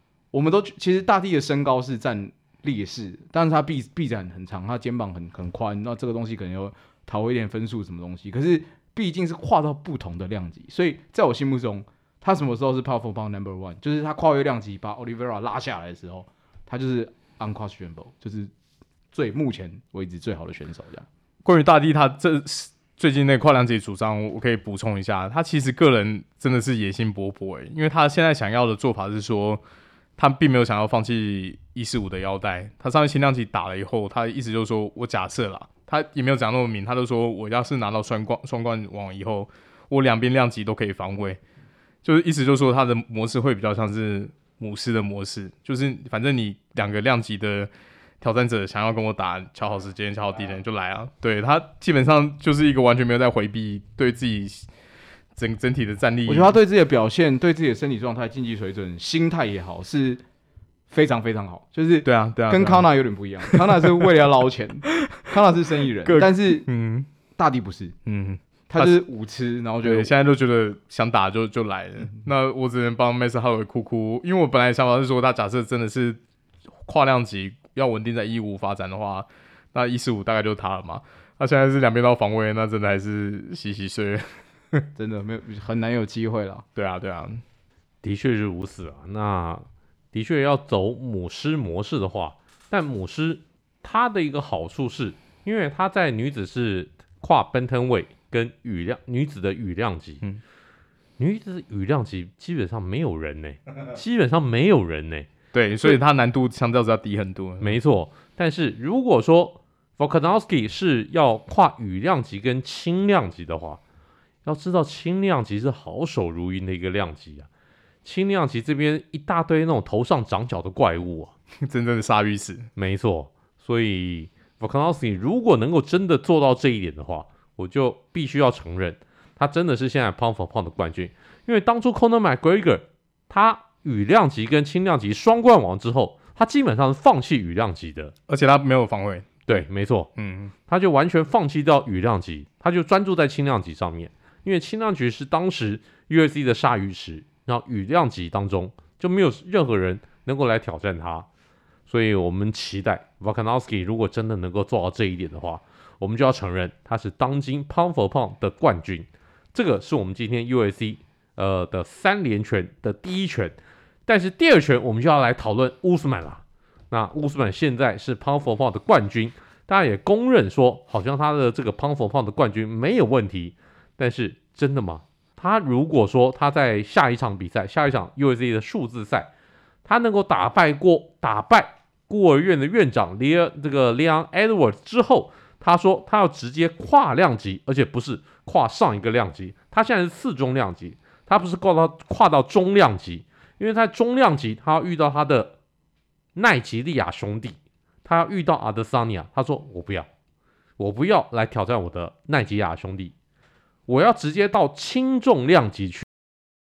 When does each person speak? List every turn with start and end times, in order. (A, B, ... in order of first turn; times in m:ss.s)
0:00.3-0:18.5 A
0:19.1-0:21.1 A
0:21.4-0:29.6 B
0:30.2-0:41.4 B
0:42.0-0:54.7 B
0:55.4-0:56.6 B
0:56.2-1:00.2 A
1:00.9-1:06.6 A
1:02.0-1:02.9 B
1:03.4-1:04.2 B
1:06.0-1:07.1 B
1:07.4-1:08.0 A
1:08.0-1:09.0 B
1:08.7-1:10.1 A
1:09.8-1:16.2 B
1:16.8-1:24.8 B
1:25.0-1:26.6 A
1:26.8-1:27.4 B
1:28.0-1:40.2 C
1:41.2-1:45.3 C
1:45.5-1:47.8 B
1:47.6-1:53.8 C
1:54.4-1:57.5 C
1:58.0-2:01.3 C
2:01.6-2:02.7 B
2:02.8-2:18.1 C
2:18.3-2:20.5 B
2:19.5-2:20.1 C
2:20.7-2:31.3 C
2:31.9-2:43.6 C
2:44.1-2:59.3 C
2:59.8-3:15.5 C
3:16.3-3:20.1 C
3:20.8-3:23.1 C
3:23.9-3:26.1 C